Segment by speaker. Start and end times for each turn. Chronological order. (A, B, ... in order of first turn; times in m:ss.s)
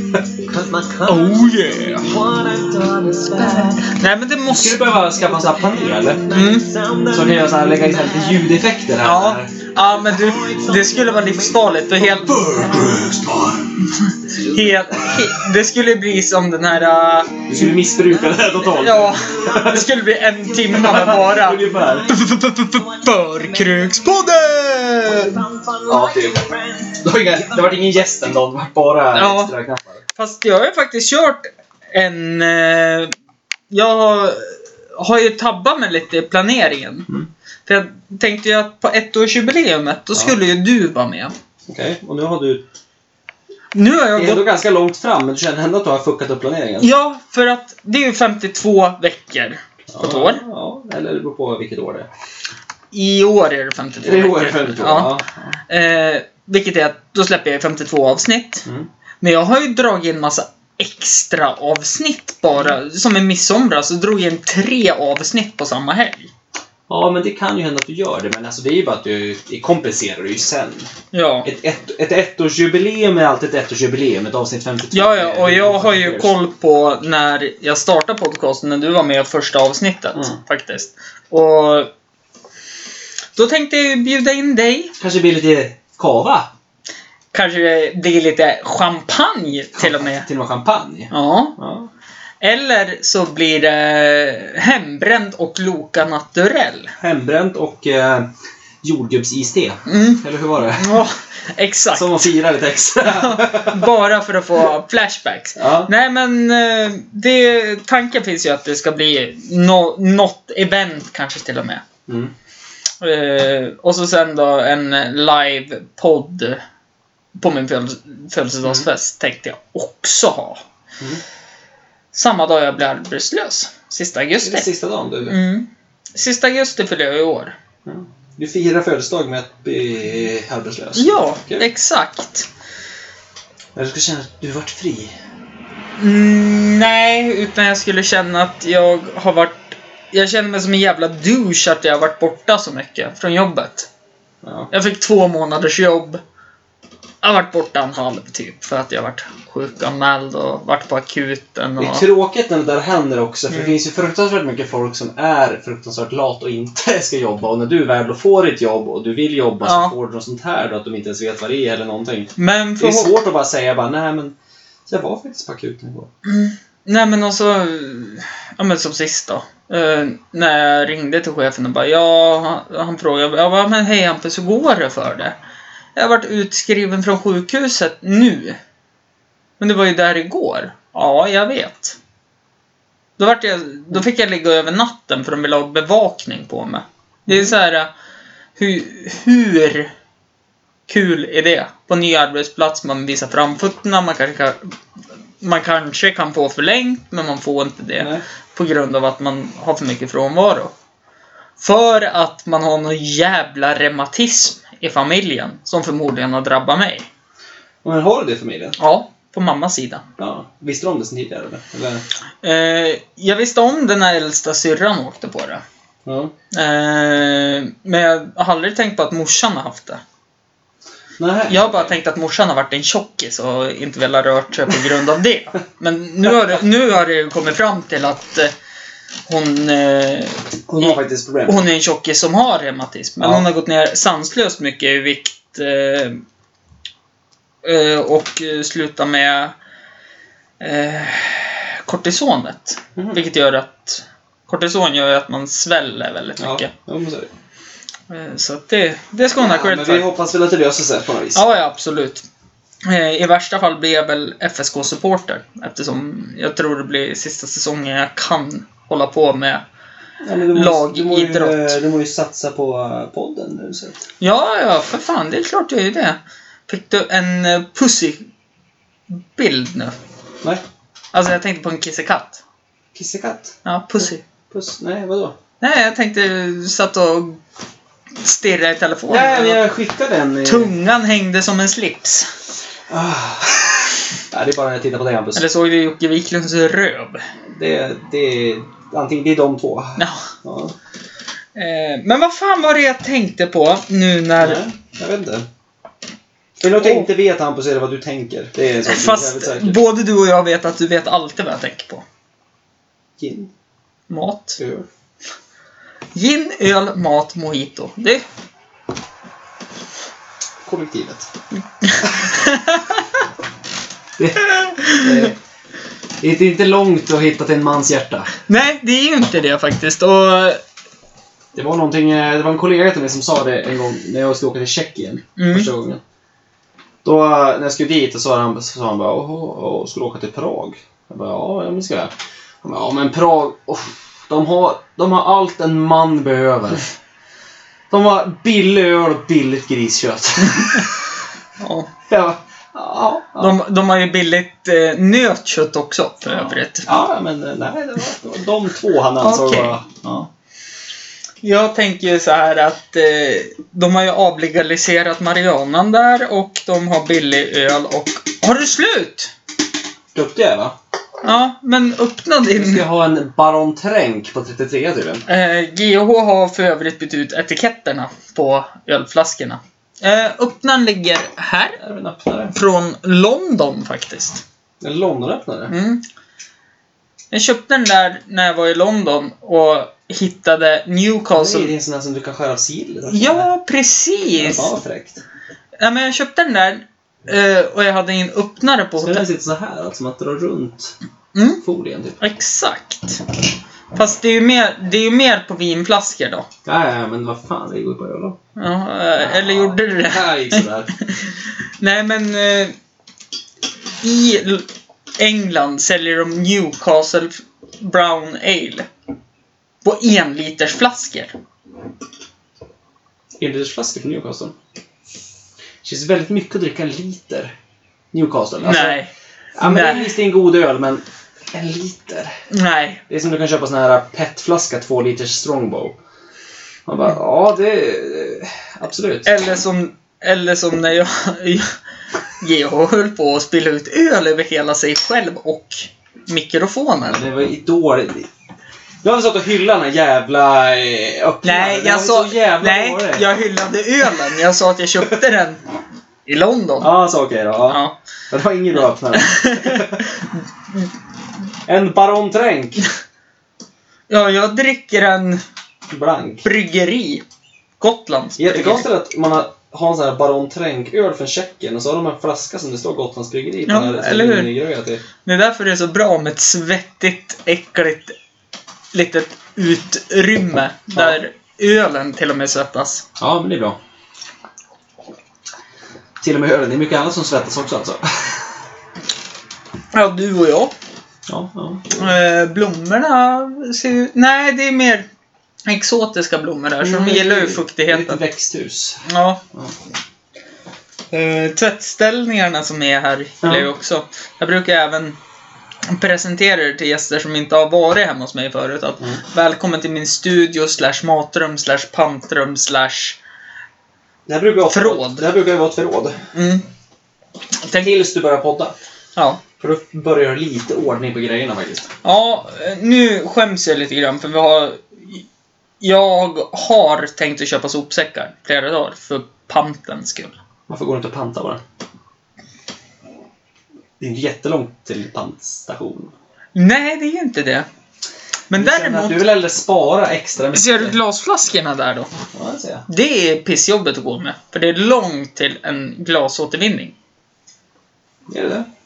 0:00.4-0:03.9 A
0:01.0-0:02.2 B
0:03.4-0:04.9 B
0:04.4-0:06.2 C
0:05.1-0:08.6 A
0:06.3-0:06.7 B
0:07.1-0:09.5 C
0:09.0-0:12.9 B
0:09.8-0:13.3 A
0:12.4-0:13.7 C
0:14.0-0:17.5 B
0:14.3-0:15.3 A
0:17.5-0:19.8 C
0:17.6-0:28.0 A
0:18.7-0:25.4 B
0:20.7-0:22.1 C
0:25.9-0:26.4 C
0:27.0-0:30.0 C
0:29.1-0:29.5 B
0:30.2-0:33.1 B
0:33.7-0:37.1 B
0:37.6-0:41.3 B
0:41.7-0:42.6 C
0:43.7-0:44.5 B
0:44.1-0:46.9 C
0:46.8-0:50.4 B
0:49.9-0:52.1 C
0:52.9-0:55.2 B
0:54.0-0:55.6 C
0:55.7-0:58.6 B
0:59.2-1:06.3 B
1:06.9-1:10.9 C
1:11.1-1:11.5 B
1:11.4-1:16.3 C
1:14.9-1:21.9 B
1:23.4-1:24.9 B
1:25.0-1:26.5 C
1:27.3-1:30.3 B
1:29.8-1:31.9 C
1:31.1-1:31.6 B
1:32.4-1:36.9 B
1:37.0-1:38.3 C
1:38.8-1:41.0 C
1:39.8-1:40.2 B
1:40.8-1:42.1 B
1:41.9-1:43.9 C
1:43.0-1:51.8 B
1:45.6-1:45.9 C
1:52.1-1:52.3 C
1:53.0-1:56.6 B
1:57.4-2:00.6 B
2:02.1-2:04.7 B
2:04.4-2:05.4 C
2:05.2-2:07.6 B
2:07.8-2:11.7 C
2:11.0-2:12.5 B
2:13.7-2:15.1 C
2:16.0-2:23.9 B
2:24.4-2:24.7 C
2:24.7-2:26.2 B
2:27.2-2:32.0 B
2:31.8-2:44.3 C
2:33.5-2:33.8 B
2:39.6-2:39.9 B
2:42.4-2:43.2 B
2:44.9-2:46.1 C
2:46.2-2:55.4 B
2:55.9-2:58.6 B
2:59.6-3:02.0 B
3:03.2-3:07.9 B
3:07.3-3:07.5 C
3:08.6-3:09.9 B
3:10.9-3:14.6 B
3:15.4-3:20.7 B
3:18.0-3:18.2 C
3:21.6-3:27.1 B
3:27.8-3:28.8 C
3:28.8-3:30.0 B
3:30.2-3:32.0 C
3:32.4-3:35.6 B
3:36.0-3:36.3 C
3:36.5-3:40.0 B
3:41.2-3:42.0 C
3:41.5-3:48.5 B
3:49.3-3:56.2 B
3:50.7-3:51.7 C
3:53.2-3:53.5 C
3:57.6-3:59.6 B
4:00.6-4:06.7 B
4:03.0-4:03.2 C
4:06.4-4:07.3 C
4:08.1-4:10.1 B
4:09.4-4:11.4 C
4:11.3-4:12.2 B
4:12.8-4:19.6 B
4:20.2-4:24.0 C
4:20.5-4:21.8 B
4:24.2-4:28.2 B
4:29.1-4:29.9 B
4:31.1-4:32.4 B
4:32.9-4:35.4 C
4:33.6-4:34.2 B
4:35.6-4:37.4 B
4:38.2-4:39.6 B
4:39.1-4:40.7 C
4:40.4-4:42.3 B
4:42.9-4:45.4 C
4:45.3-4:47.2 B
4:47.5-4:50.8 C
4:50.0-4:50.3 B
4:51.5-4:54.6 B
4:54.4-4:55.5 C
4:56.6-4:59.8 C
4:56.7-4:57.1 B
4:58.8-5:02.0 B
5:03.2-5:03.5 C
5:04.1-5:04.6 B
5:04.6-5:04.9 C
5:06.1-5:08.2 B
5:10.6-5:11.3 C
5:11.8-5:13.1 B
5:14.2-5:15.4 C
5:14.5-5:15.3 B
5:16.2-5:18.3 C
5:18.5-5:20.6 B
5:21.5-5:26.0 C
5:25.4-5:25.7 B
5:27.0-5:36.9 C
5:37.9-5:41.0 C
5:40.5-5:40.8 B
5:41.6-5:41.9 B
5:42.1-5:43.6 C
5:43.4-5:46.9 B
5:46.2-5:50.3 C
5:49.2-5:49.8 B
5:51.4-5:59.3 B
6:00.1-6:00.8 C
6:01.2-6:02.8 B
6:02.5-6:05.2 C
6:05.3-6:11.8 B
6:11.8-6:12.5 C
6:12.5-6:14.4 B
6:14.8-6:15.7 C
6:15.7-6:16.0 B
6:17.3-6:21.7 B
6:21.3-6:23.5 C
6:23.1-6:24.7 B
6:24.4-6:25.2 C
6:25.8-6:29.2 B
6:29.0-6:30.9 C
6:31.3-6:31.6 B
6:31.6-6:32.2 C
6:32.2-6:33.2 B
6:33.9-6:36.5 B
6:36.6-6:38.4 C
6:38.6-6:42.7 B
6:39.2-6:40.9 C
6:44.0-6:48.9 B
6:49.8-6:51.3 B
6:53.4-6:54.5 C
6:55.8-6:57.5 C
6:58.1-6:59.0 C
6:58.6-7:00.2 B
6:59.6-7:02.3 C
7:02.5-7:03.0 B
7:03.1-7:06.0 C
7:06.9-7:09.3 C
7:09.2-7:11.7 B
7:12.4-7:17.2 B
7:17.0-7:18.3 C
7:19.0-7:23.2 C
7:21.4-7:25.6 B
7:26.2-7:26.9 B
7:26.8-7:30.0 C
7:27.7-7:28.0 B
7:29.1-7:30.2 B
7:31.7-7:32.8 C
7:34.1-7:35.4 B
7:35.9-7:36.4 C
7:36.4-7:37.2 B
7:37.8-7:38.9 B
7:38.4-7:45.0 C
7:43.6-7:44.5 B
7:45.2-7:48.1 B
7:48.9-7:53.0 B
7:50.9-7:51.2 C
7:53.2-7:53.8 C
7:56.2-7:58.5 C
7:59.9-8:00.7 B
8:01.3-8:02.1 C
8:02.0-8:05.1 B
8:05.6-8:08.2 B
8:06.8-8:09.7 C
8:09.0-8:09.4 B
8:11.1-8:15.2 B
8:13.4-8:13.7 C
8:15.9-8:23.2 B
8:24.3-8:26.2 C
8:24.7-8:25.2 B
8:26.3-8:26.6 B
8:27.8-8:28.8 C
8:29.6-8:31.9 C
8:32.0-8:35.2 B
8:35.8-8:40.4 B
8:40.7-8:41.6 C
8:44.0-8:46.1 C
8:46.5-8:47.7 B
8:48.5-8:49.3 B
8:48.5-8:51.0 C
8:50.5-8:52.1 B
8:52.3-8:52.8 C
8:52.9-8:56.9 B
8:58.3-8:58.7 C